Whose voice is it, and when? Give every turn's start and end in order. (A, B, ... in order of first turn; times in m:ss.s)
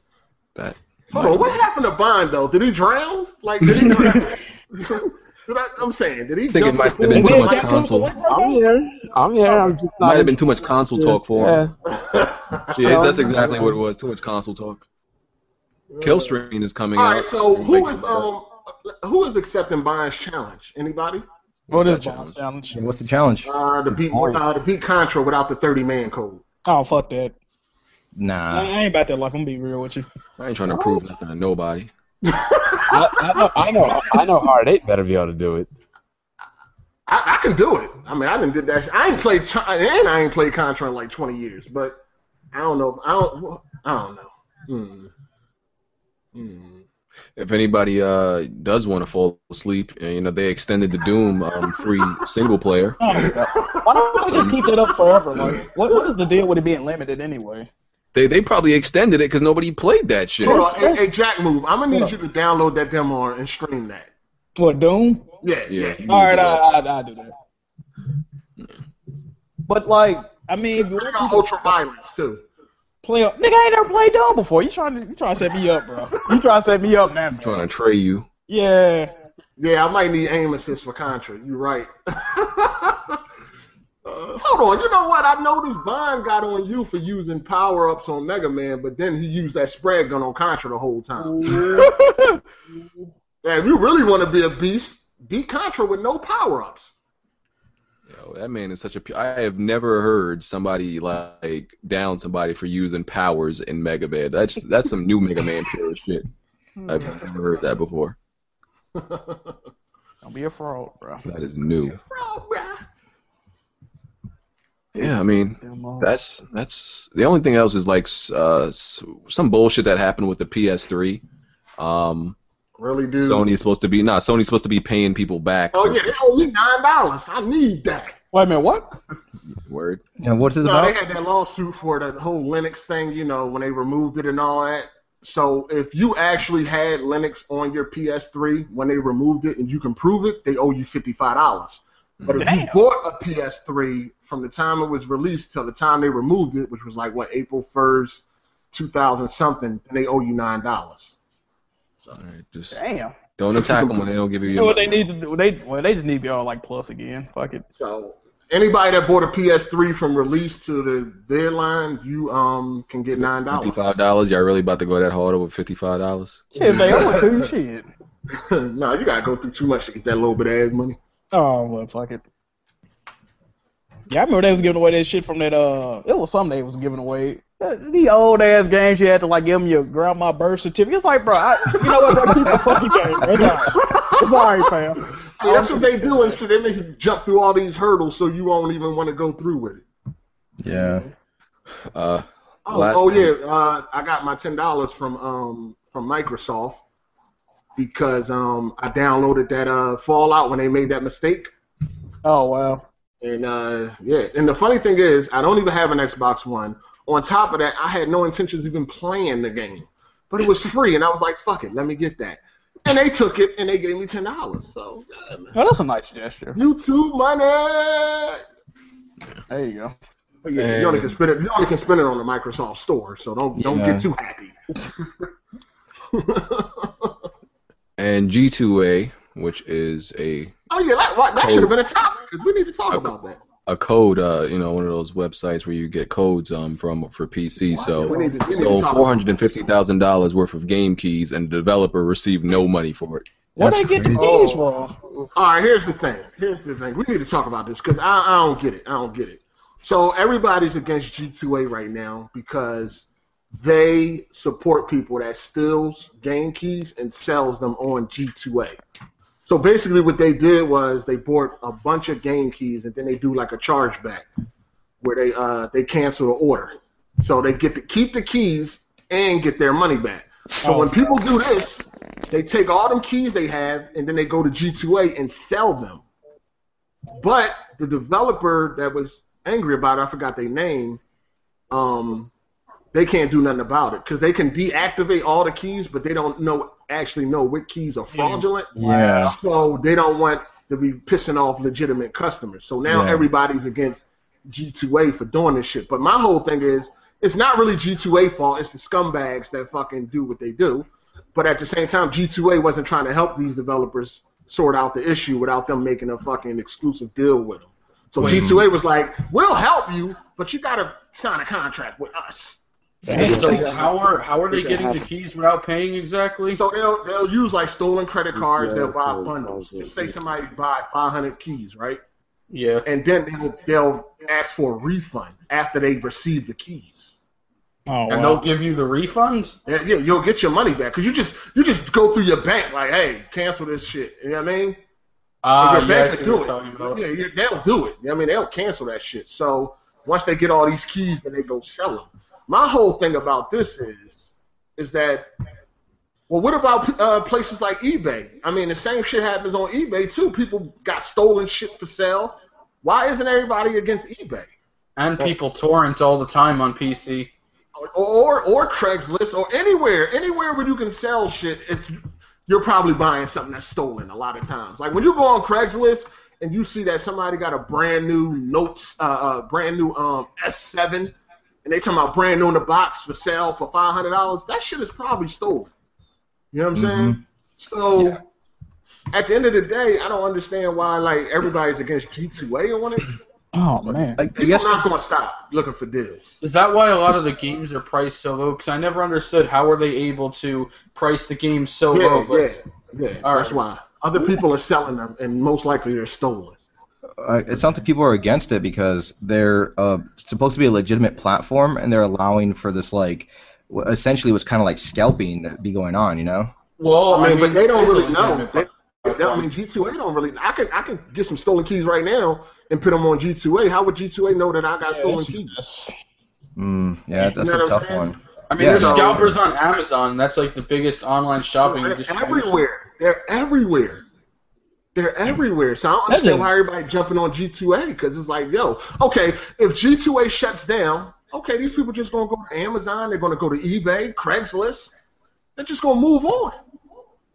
0:00.5-0:01.6 A
0:01.1-0:07.9 B
0:03.7-0:04.3 C
0:06.5-0:08.1 A
0:07.1-0:08.6 C
0:08.2-0:11.7 D
0:09.4-0:09.7 C
0:10.0-0:11.6 A
0:11.9-0:13.3 B
0:12.7-0:14.8 A
0:12.8-0:13.7 D
0:15.9-0:16.4 B
0:16.0-0:18.3 A
0:16.9-0:21.2 B
0:21.7-0:22.4 A
0:21.7-0:22.9 C
0:22.7-0:23.5 E
0:23.4-0:26.4 B
0:26.6-0:27.4 C
0:28.2-0:28.7 E
0:28.5-0:30.1 C
0:30.4-0:31.9 A
0:30.7-0:31.0 C
0:32.3-0:33.0 B
0:32.9-0:35.7 D
0:37.1-0:42.0 B
0:42.5-0:45.1 B
0:46.3-0:46.8 B
0:47.4-0:53.0 A
0:53.0-0:57.7 C
0:53.1-0:56.1 B
0:54.2-0:54.9 A
0:58.1-1:00.7 A
1:00.4-1:01.1 C
1:00.4-1:04.1 B
1:01.9-1:02.2 C
1:04.6-1:05.3 C
1:05.4-1:06.0 B
1:05.7-1:06.6 A
1:06.0-1:07.3 C
1:09.7-1:11.7 C
1:10.8-1:12.4 B
1:13.0-1:17.6 C
1:17.4-1:18.3 A
1:18.5-1:19.1 C
1:19.6-1:23.2 B
1:24.0-1:31.7 B
1:31.2-1:31.9 C
1:33.4-1:36.9 B
1:38.1-1:46.2 A
1:46.8-1:47.1 C
1:46.9-1:48.2 A
1:48.9-1:49.6 B
1:50.2-1:51.2 C
1:51.2-1:52.0 A
1:51.9-1:52.8 B
1:55.0-2:01.2 A
1:55.0-1:56.1 C
2:01.8-2:02.4 A
2:02.8-2:03.5 B
2:03.2-2:06.0 A
2:05.7-2:08.2 B
2:08.3-2:09.0 C
2:09.5-2:10.0 A
2:10.2-2:11.0 E
2:10.6-2:31.2 B
2:22.2-2:22.5 A
2:22.4-2:22.8 C
2:32.2-2:32.8 A
2:32.7-2:33.2 C
2:33.4-2:35.0 A
2:33.5-2:34.0 B
2:34.5-2:37.6 C
2:37.7-2:43.8 B
2:43.2-2:47.1 A
2:46.5-2:47.9 C
2:46.6-2:47.5 B
2:48.3-2:51.0 B
2:51.3-2:52.2 C
2:54.1-3:06.4 C
3:01.7-3:09.8 B
3:03.2-3:03.6 E
3:10.6-3:11.0 E
3:10.7-3:11.1 B
3:11.9-3:13.3 A
3:12.7-3:16.8 B
3:17.8-3:21.5 B
3:22.2-3:22.8 C
3:23.2-3:35.5 B
3:35.5-3:36.6 C
3:36.5-3:38.4 B
3:39.5-3:39.9 C
3:40.4-3:44.5 B
3:40.6-3:41.2 A
3:43.6-3:44.1 E
3:46.1-3:47.1 B
3:48.0-3:50.5 A
3:50.7-3:53.4 B
3:51.4-3:51.7 A
3:53.6-4:03.2 A
3:57.9-3:58.6 C
3:58.0-3:59.3 B
4:03.6-4:05.0 C
4:03.6-4:04.3 E
4:04.2-4:04.6 F
4:05.3-4:18.8 B
4:19.4-4:24.3 B
4:25.0-4:36.0 B
4:30.6-4:31.2 C
4:37.2-4:41.0 B
4:41.7-4:42.3 B
4:42.9-5:12.6 B
4:48.1-4:49.3 C
4:48.8-4:49.3 E
4:52.8-4:53.3 E
5:08.2-5:08.6 A
5:08.2-5:08.6 E
5:13.0-5:13.6 C
5:13.1-5:14.0 D
5:13.1-5:16.6 F
5:14.5-5:15.0 D
5:16.5-5:22.0 B
5:18.3-5:20.2 D
5:22.5-5:22.8 F
5:22.8-5:27.1 B
5:27.9-5:28.4 C
5:28.1-5:29.6 F
5:29.6-5:34.8 B
5:35.4-5:37.0 F
5:35.6-5:45.3 B
5:46.3-5:54.5 B
5:55.0-5:57.3 F
5:57.8-6:02.0 B
6:02.5-6:11.1 B
6:11.6-6:15.7 B
6:16.5-6:18.2 B
6:16.7-6:17.2 E
6:19.1-6:23.2 B
6:23.5-6:24.2 C
6:24.2-6:24.9 E
6:24.3-6:26.4 B
6:26.4-6:32.5 F
6:31.9-6:36.6 B
6:33.2-6:33.6 F
6:37.2-6:46.5 E
6:46.8-6:49.5 F
6:47.1-6:55.5 B
6:54.8-6:55.9 C
6:56.6-6:59.4 E
6:57.2-6:58.1 B
6:58.5-7:02.6 F
6:58.7-6:59.2 B
7:01.6-7:04.0 B
7:04.9-7:14.9 B
7:06.1-7:06.5 C
7:15.6-7:16.6 B